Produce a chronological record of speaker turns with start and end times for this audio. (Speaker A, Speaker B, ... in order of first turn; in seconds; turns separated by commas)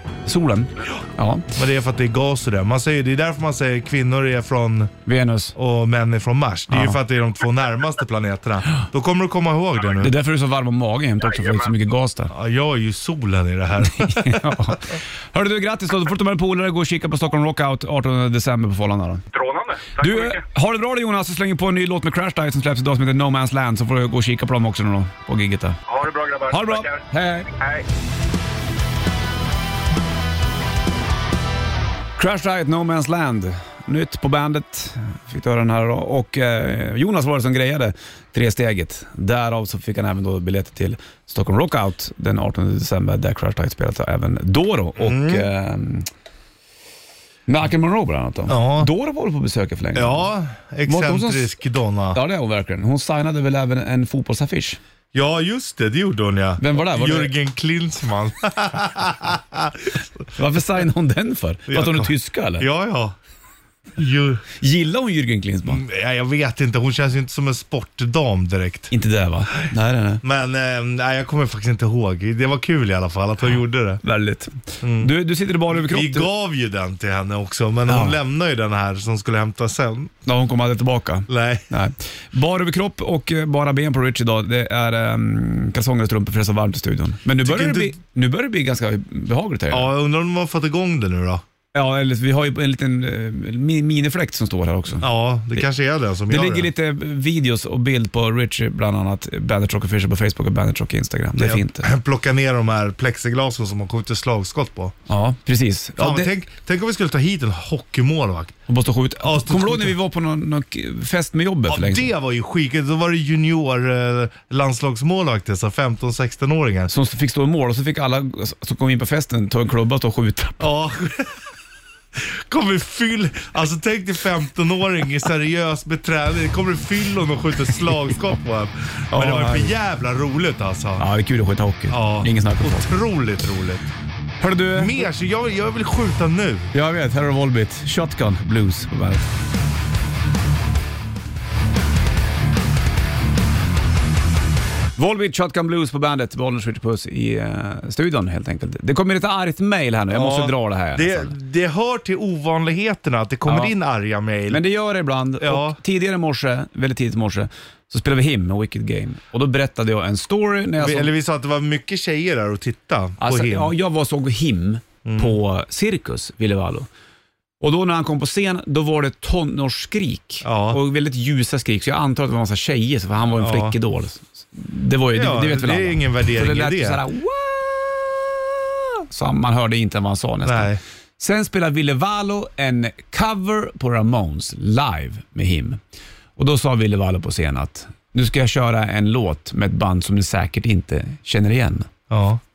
Speaker A: 0.3-1.5, Speaker B: 1.6-4.9, Speaker A: 5.1-5.5, Speaker B: 5.6-10.1, Speaker A: 6.7-7.0, Speaker A: 10.0-12.3, Speaker C: 11.2-11.7, Speaker B: 12.3-14.8, Speaker A: 13.9-19.2, Speaker C: 19.3-20.4, Speaker A: 20.0-25.8, Speaker C: 25.9-27.9, Speaker A: 26.5-27.5, Speaker A: 32.2-46.1, Speaker B: 45.0-45.5, Speaker A: 47.5-50.3, Speaker B: 48.5-48.9, Speaker B: 50.0-52.2, Speaker A: 50.9-51.5, Speaker A: 52.1-54.8, Speaker B: 55.1-60.0, Speaker A: 56.6-57.3, Speaker A: 60.4-62.7, Speaker B: 61.7-63.1, Speaker B: 64.0-64.5, Speaker A: 64.6-65.8, Speaker B: 65.7-68.9, Speaker A: 68.9-70.2, Speaker B: 70.2-74.0, Speaker A: 74.0-76.3, Speaker B: 74.8-75.1, Speaker B: 75.7-80.1, Speaker A: 77.9-78.2, Speaker A: 80.2-89.9, Speaker B: 81.3-81.7, Speaker B: 87.4-88.0, Speaker B: 89.7-91.4, Speaker A: 91.7-95.7, Speaker B: 95.0-96.7, Speaker A: 96.3-101.9, Speaker B: 101.3-105.0, Speaker A: 105.1-106.3, Speaker B: 106.0-108.6, Speaker A: 108.7-112.1, Speaker B: 109.2-110.0, Speaker B: 111.7-116.9, Speaker A: 116.9-120.7, Speaker B: 120.6-121.4, Speaker B: 122.2-131.1, Speaker A: 129.1-129.7, Speaker A: 131.0-132.9, Speaker B: 131.9-133.9, Speaker A: 134.4-135.1, Speaker B: 134.7-136.7, Speaker A: 136.7-139.3, Speaker A: 145.0-151.3, Speaker B: 150.1-154.6, Speaker A: 153.5-153.7, Speaker A: 154.5-161.1, Speaker B: 155.4-155.8, Speaker B: 160.8-163.7, Speaker A: 163.2-166.9, Speaker B: 165.1-165.4, Speaker A: 167.6-178.3, Speaker B: 170.4-170.8, Speaker B: 173.4-173.8, Speaker B: 175.1-177.0, Speaker A: 179.1-185.8, Speaker B: 180.4-180.8, Speaker A: 186.4-191.9, Speaker B: 192.1-192.4